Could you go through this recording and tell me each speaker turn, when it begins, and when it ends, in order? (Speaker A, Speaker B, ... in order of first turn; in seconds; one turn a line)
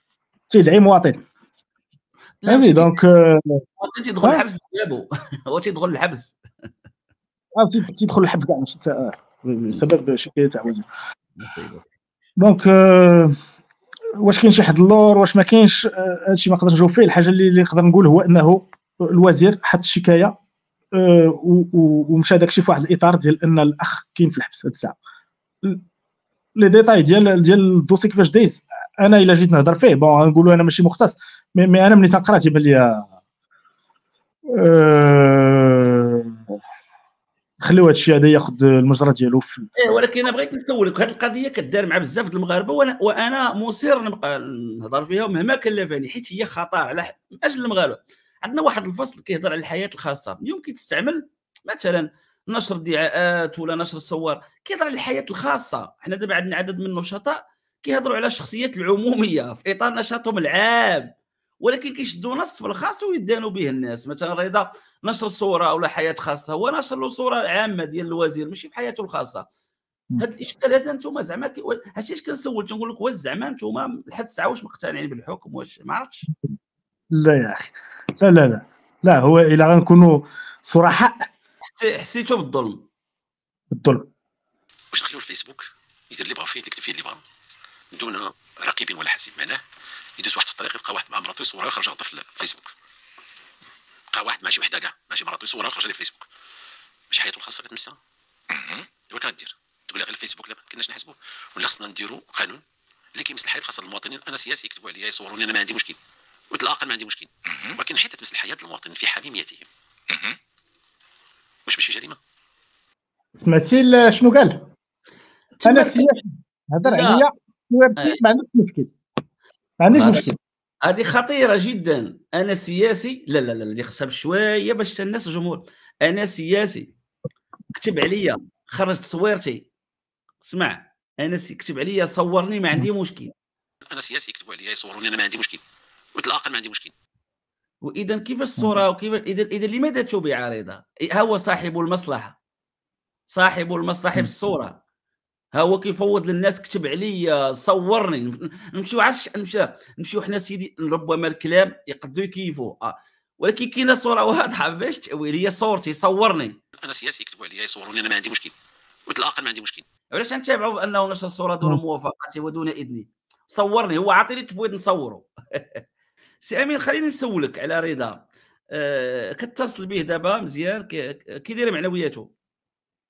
Speaker A: 0.5-1.2
Speaker B: 2.4-3.0
Speaker A: 2.5-3.6
Speaker B: 3.8-6.4
Speaker A: 7.5-10.9
Speaker B: 11.4-11.9
Speaker A: 12.4-13.4
Speaker A: 14.2-20.4
Speaker A: 20.9-25.0
Speaker A: 26.6-33.1
Speaker A: 34.5-36.6
Speaker A: 37.6-39.7
Speaker B: 39.8-61.1
Speaker B: 61.6-69.5
Speaker B: 70.2-76.3
Speaker A: 77.1-81.3
Speaker B: 81.6-82.8
Speaker A: 83.7-84.1
Speaker C: 84.9-87.2
Speaker C: 87.9-89.6
Speaker C: 90.2-92.7
Speaker C: 94.1-96.2
Speaker C: 97.1-98.0
Speaker C: 98.5-102.6
Speaker C: 103.1-106.0
Speaker C: 106.5-110.3
Speaker C: 111.7-112.2
Speaker A: 113.3-114.7
Speaker B: 115.6-116.2
Speaker A: 115.7-118.9
Speaker B: 116.8-117.2
Speaker A: 119.8-120.4
Speaker B: 119.9-120.3
Speaker B: 120.8-126.9
Speaker B: 127.7-129.7
Speaker B: 130.4-133.3
Speaker C: 133.9-135.6
Speaker C: 136.2-136.9
Speaker B: 137.8-142.4
Speaker B: 143.3-144.8
Speaker B: 145.6-156.6
Speaker C: 156.8-158.5
Speaker C: 159.1-159.8
Speaker B: 160.1-165.8
Speaker B: 166.4-172.3